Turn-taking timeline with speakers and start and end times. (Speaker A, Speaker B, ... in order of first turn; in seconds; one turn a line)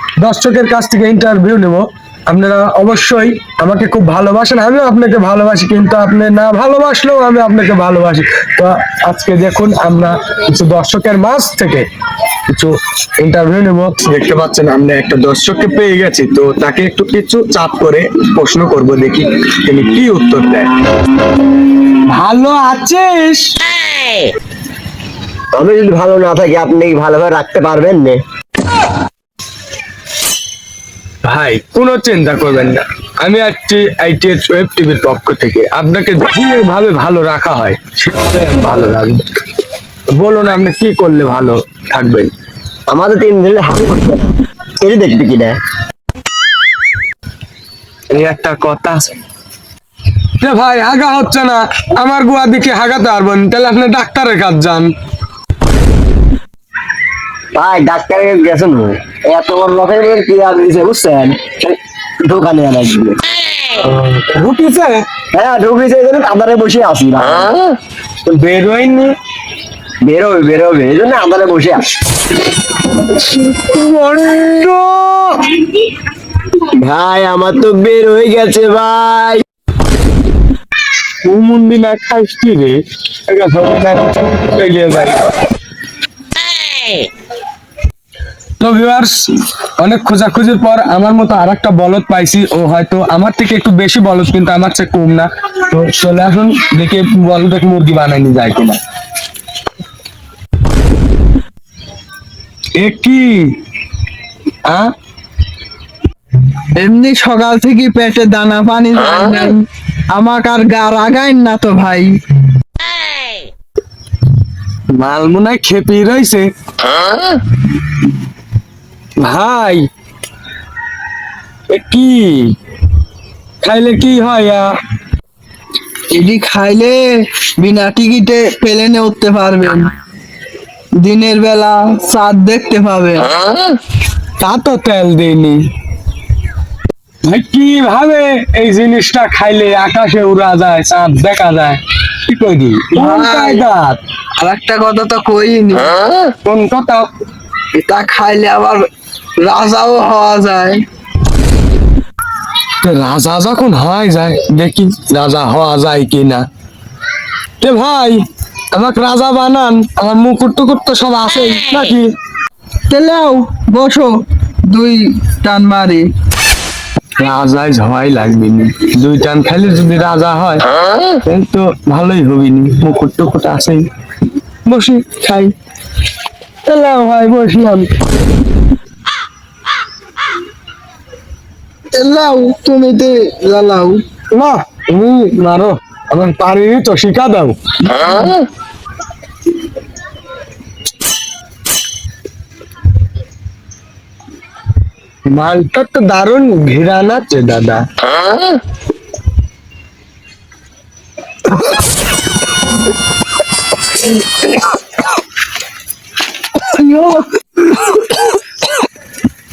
Speaker A: 0.2-11.9
Speaker A: 12.5-20.7
Speaker A: 22.1-23.5
Speaker B: 25.5-28.2
Speaker A: 31.3-39.2
Speaker A: 40.2-42.3
Speaker B: 42.9-45.6
Speaker A: 48.1-49.1
Speaker A: 50.4-54.9
Speaker B: 57.5-63.2
Speaker A: 63.8-65.0
Speaker B: 65.3-67.6
Speaker A: 68.2-69.1
Speaker B: 70.0-71.9
Speaker A: 73.2-75.6
Speaker B: 76.7-79.4
Speaker A: 81.2-85.3
Speaker A: 88.6-89.1
Speaker A: 89.8-98.8
Speaker A: 102.8-103.5
Speaker A: 104.7-104.9
Speaker C: 106.8-112.2
Speaker A: 114.9-116.5
Speaker A: 119.2-119.9
Speaker A: 121.7-122.5
Speaker A: 123.6-124.7
Speaker C: 126.1-129.9
Speaker C: 131.0-133.7
Speaker A: 134.4-135.6
Speaker A: 137.3-144.0
Speaker C: 142.9-143.6
Speaker C: 144.4-146.3
Speaker A: 146.4-147.1
Speaker C: 147.7-150.8
Speaker A: 152.8-156.4
Speaker A: 157.6-162.1
Speaker C: 162.9-166.1
Speaker A: 167.2-173.8
Speaker A: 174.7-175.2
Speaker C: 175.0-175.5
Speaker A: 176.7-177.9
Speaker C: 181.9-184.0
Speaker A: 184.3-187.8
Speaker C: 187.8-188.4
Speaker A: 195.3-197.9
Speaker C: 204.2-204.7
Speaker C: 206.5-208.4